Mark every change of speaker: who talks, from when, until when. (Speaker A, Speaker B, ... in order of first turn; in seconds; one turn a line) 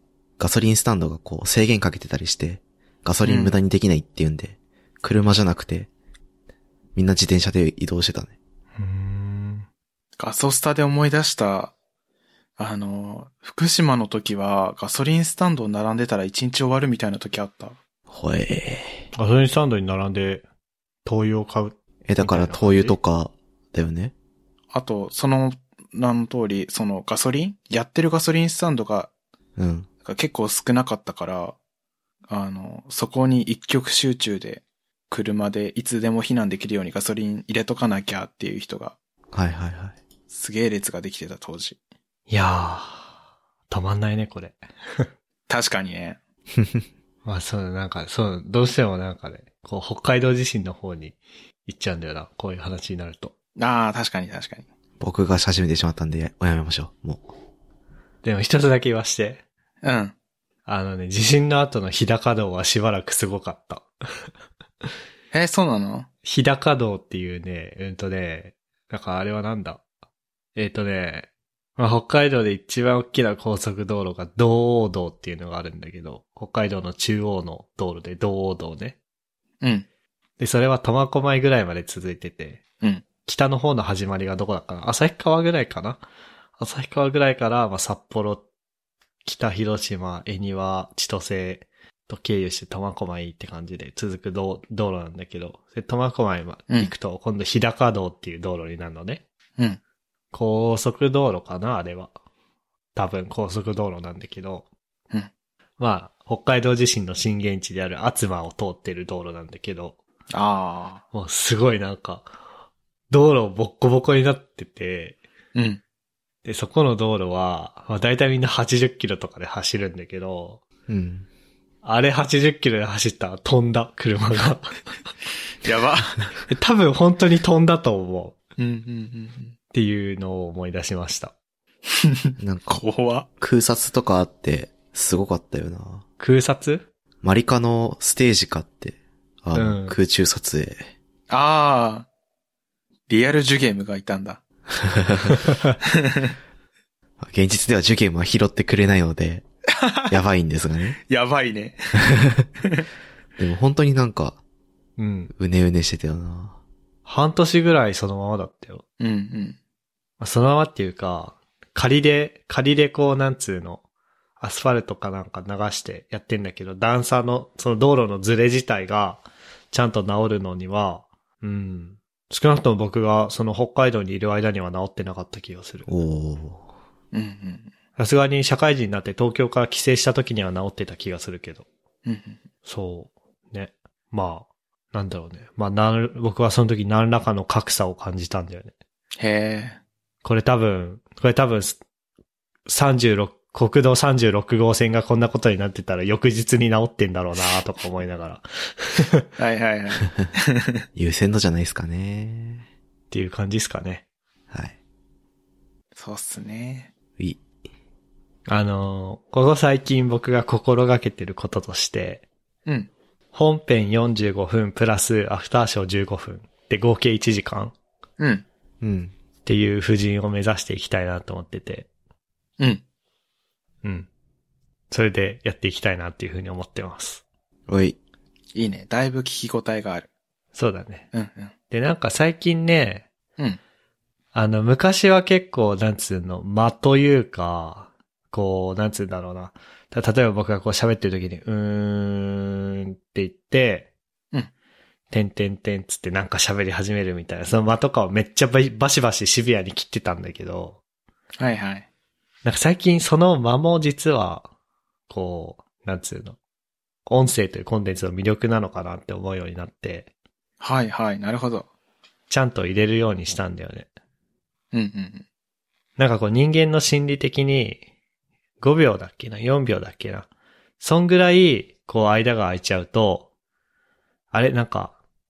Speaker A: 0.4-5.9
Speaker B: 3.2-3.6
Speaker A: 6.9-8.3
Speaker C: 8.8-9.7
Speaker B: 10.2-11.7
Speaker B: 12.6-17.8
Speaker A: 18.1-19.1
Speaker C: 19.1-20.4
Speaker C: 21.0-23.0
Speaker A: 22.1-24.1
Speaker B: 24.7-29.1
Speaker A: 29.6-29.9
Speaker B: 30.0-31.6
Speaker B: 32.3-38.9
Speaker A: 39.3-40.0
Speaker B: 40.3-41.8
Speaker C: 42.3-43.1
Speaker C: 43.7-45.1
Speaker B: 45.5-46.2
Speaker A: 46.5-46.9
Speaker C: 47.2-53.3
Speaker B: 53.6-54.6
Speaker A: 55.0-57.2
Speaker C: 58.2-59.4
Speaker B: 59.8-60.1
Speaker C: 60.6-63.9
Speaker B: 65.3-66.1
Speaker C: 66.2-69.8
Speaker C: 70.5-79.0
Speaker B: 79.6-79.9
Speaker C: 80.4-82.6
Speaker C: 83.2-86.0
Speaker C: 86.6-88.4
Speaker C: 89.2-99.2
Speaker C: 100.3-102.1
Speaker C: 102.9-104.7
Speaker C: 105.8-110.0
Speaker B: 110.3-111.0
Speaker C: 111.1-112.3
Speaker C: 113.1-115.2
Speaker B: 115.5-115.8
Speaker C: 116.4-120.6
Speaker A: 120.9-121.3
Speaker C: 121.8-124.9
Speaker B: 125.6-126.3
Speaker C: 126.5-128.4
Speaker B: 128.6-129.5
Speaker C: 129.7-131.3
Speaker B: 131.9-133.3
Speaker A: 132.4-132.8
Speaker A: 133.4-136.0
Speaker C: 136.2-136.9
Speaker A: 137.2-140.9
Speaker C: 139.5-139.9
Speaker B: 141.3-142.1
Speaker B: 143.1-144.4
Speaker A: 144.7-145.4
Speaker B: 145.8-146.3
Speaker A: 147.2-149.4
Speaker B: 149.7-150.2
Speaker A: 150.1-151.0
Speaker B: 151.1-152.1
Speaker A: 152.0-152.5
Speaker B: 152.6-152.9
Speaker A: 153.4-154.4
Speaker C: 155.0-155.3
Speaker A: 155.3-156.6
Speaker C: 157.0-158.8
Speaker B: 159.0-159.6
Speaker C: 160.2-163.8
Speaker C: 164.4-175.9
Speaker A: 175.9-176.7
Speaker B: 177.1-177.7
Speaker C: 178.0-181.7
Speaker B: 182.0-182.4
Speaker C: 182.7-188.7
Speaker B: 189.2-189.8
Speaker C: 190.2-191.8
Speaker C: 192.7-199.2
Speaker B: 199.4-200.8
Speaker A: 200.9-202.6
Speaker C: 203.1-204.0
Speaker B: 205.9-206.9
Speaker A: 207.2-207.4
Speaker C: 208.5-212.2
Speaker C: 213.3-217.7
Speaker B: 218.2-218.4
Speaker A: 218.8-219.1
Speaker C: 219.4-221.9
Speaker C: 223.8-224.1
Speaker C: 224.9-227.2
Speaker A: 227.7-228.0
Speaker B: 228.5-230.1
Speaker C: 230.5-231.1
Speaker B: 231.1-231.5
Speaker C: 231.7-233.1
Speaker C: 234.3-243.9
Speaker C: 245.1-250.8
Speaker B: 251.4-251.9
Speaker C: 252.4-254.5
Speaker C: 255.1-256.4
Speaker C: 257.1-260.1
Speaker B: 260.6-261.7
Speaker C: 262.3-263.9
Speaker B: 264.7-265.2
Speaker C: 266.0-267.8
Speaker C: 268.6-270.3
Speaker C: 270.8-273.3
Speaker C: 274.3-274.9